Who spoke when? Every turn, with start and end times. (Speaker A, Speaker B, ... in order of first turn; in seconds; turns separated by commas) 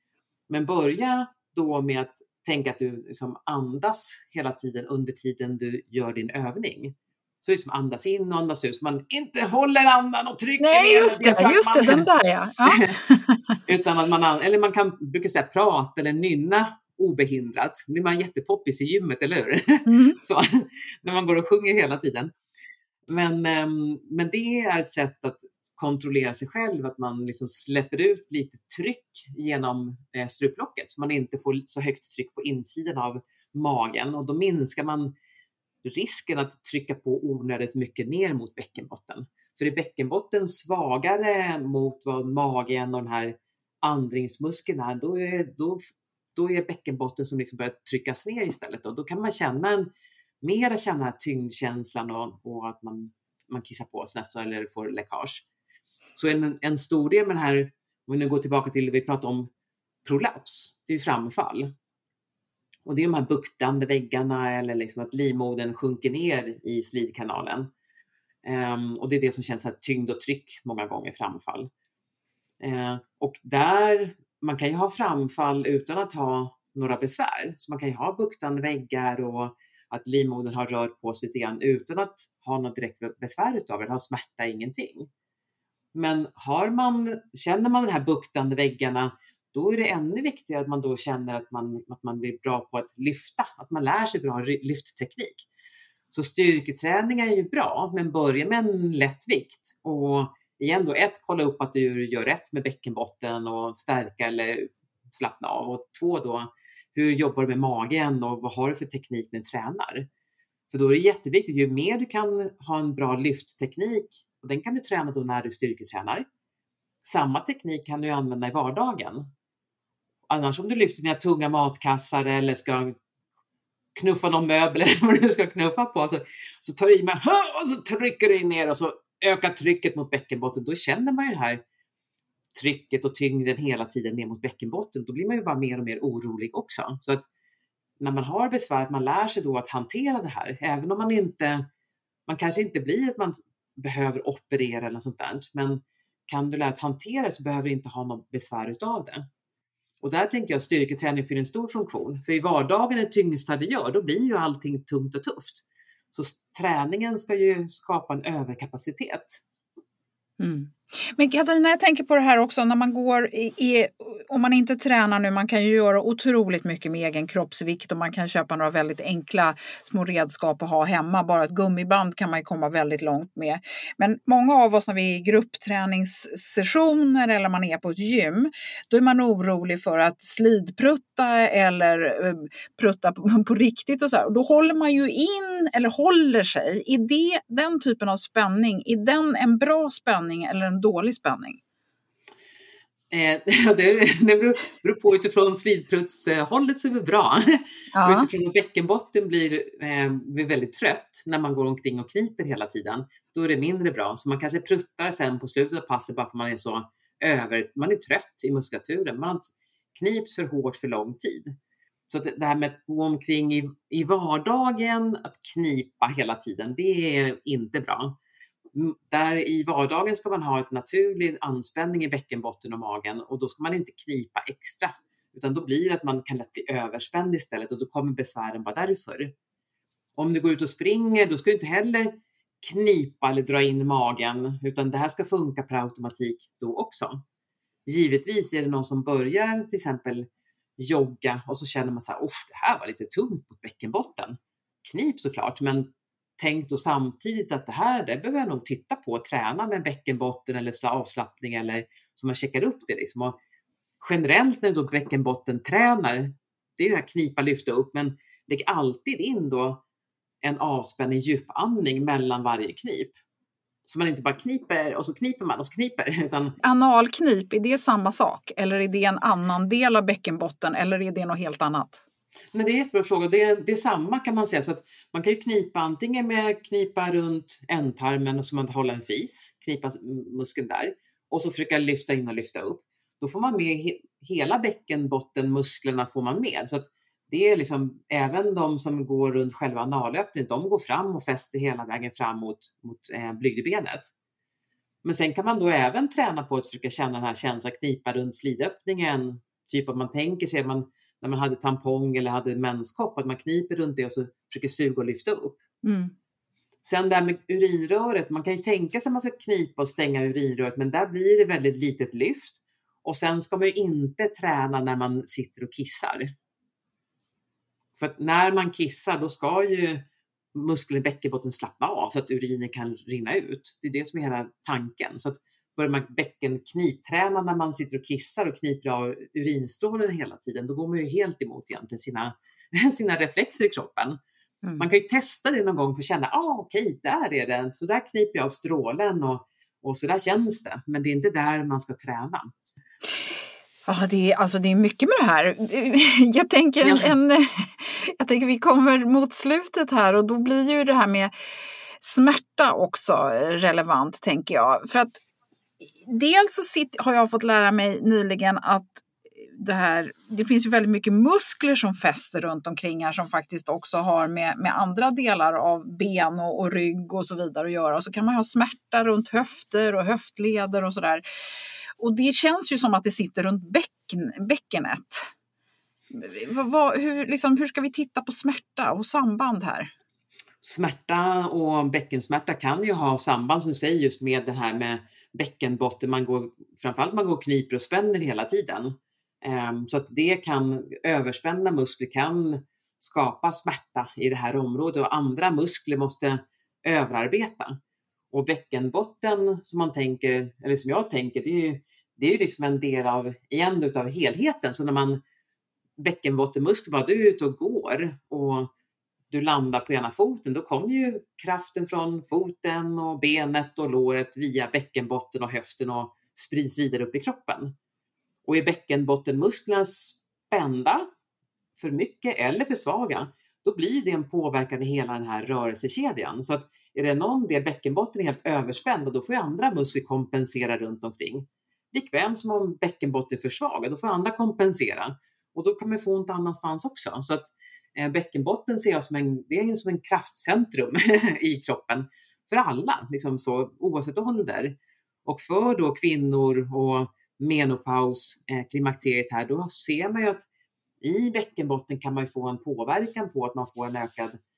Speaker A: 0.5-12.1, Speaker B: 10.6-13.6, Speaker A: 12.6-12.9, Speaker A: 13.7-22.3, Speaker B: 19.9-20.2, Speaker A: 23.1-35.1, Speaker A: 35.8-49.9, Speaker A: 50.4-55.4, Speaker A: 56.1-59.5, Speaker A: 60.0-61.7, Speaker A: 62.9-67.7, Speaker A: 68.4-71.7, Speaker A: 72.6-85.1, Speaker A: 85.9-95.5, Speaker A: 96.1-110.1, Speaker A: 110.7-116.2, Speaker A: 117.0-119.3, Speaker A: 120.3-123.0, Speaker A: 123.9-131.6, Speaker A: 132.5-137.2, Speaker A: 138.0-141.7, Speaker A: 142.3-149.2, Speaker A: 150.0-159.4, Speaker B: 160.4-191.6, Speaker A: 193.1-211.6, Speaker B: 197.9-198.3, Speaker A: 212.1-218.1, Speaker A: 218.7-229.3, Speaker A: 230.2-237.2, Speaker A: 237.8-253.3, Speaker A: 254.0-259.8, Speaker A: 260.4-263.1, Speaker A: 263.9-266.6, Speaker B: 266.6-272.0, Speaker A: 272.5-294.1, Speaker A: 295.0-305.6, Speaker B: 305.8-306.1, Speaker A: 306.8-316.3, Speaker A: 318.0-320.0, Speaker A: 320.5-334.2, Speaker A: 334.8-342.5, Speaker B: 343.9-351.3, Speaker A: 346.8-347.1, Speaker B: 352.0-355.2, Speaker B: 356.0-371.2, Speaker B: 372.0-375.3, Speaker B: 376.1-379.9, Speaker A: 380.6-397.8, Speaker A: 398.3-405.2, Speaker A: 406.0-408.7, Speaker A: 409.3-417.7, Speaker A: 418.4-421.1, Speaker A: 421.8-450.4, Speaker A: 451.0-454.4